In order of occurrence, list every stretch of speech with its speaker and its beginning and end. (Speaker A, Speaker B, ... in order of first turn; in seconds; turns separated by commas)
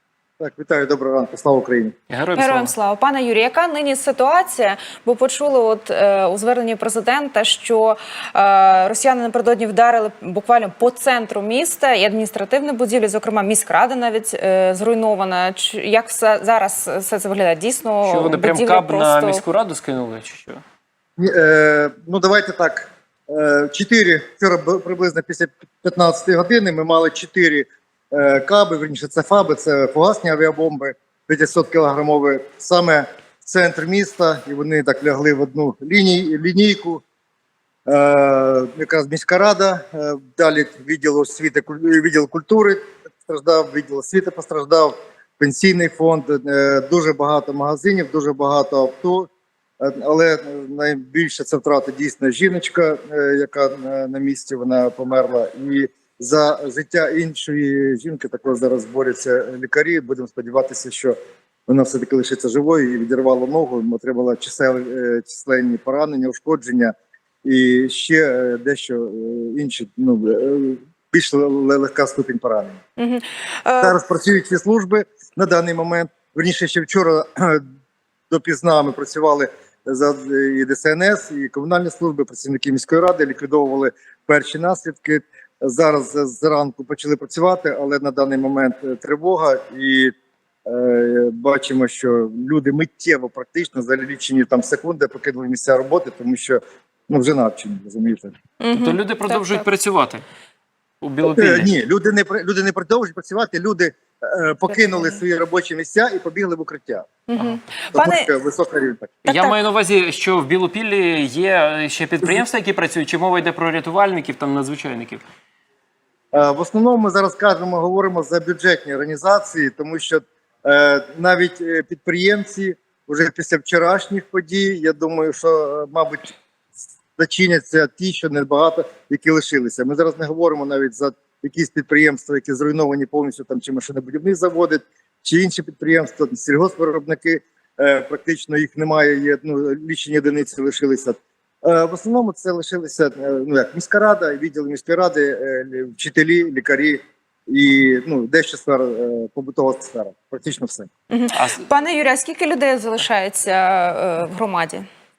Speaker A: 0.4-1.9, Speaker B: 2.1-2.7, Speaker C: 2.4-19.4, Speaker B: 18.1-20.6, Speaker A: 21.2-37.0, Speaker A: 37.9-49.3, Speaker A: 49.8-61.2, Speaker A: 61.7-66.9, Speaker A: 67.4-72.8, Speaker C: 73.0-74.0, Speaker A: 73.8-77.6, Speaker A: 78.3-90.1, Speaker A: 90.7-98.3, Speaker C: 98.6-99.7, Speaker B: 98.7-100.2, Speaker B: 101.0-101.7, Speaker A: 101.2-107.1, Speaker C: 104.7-105.2, Speaker C: 107.3-108.3, Speaker A: 107.9-109.2, Speaker B: 109.2-115.2, Speaker C: 109.3-109.5, Speaker A: 116.3-126.3, Speaker A: 127.2-150.9, Speaker C: 151.1-154.9, Speaker B: 151.3-151.7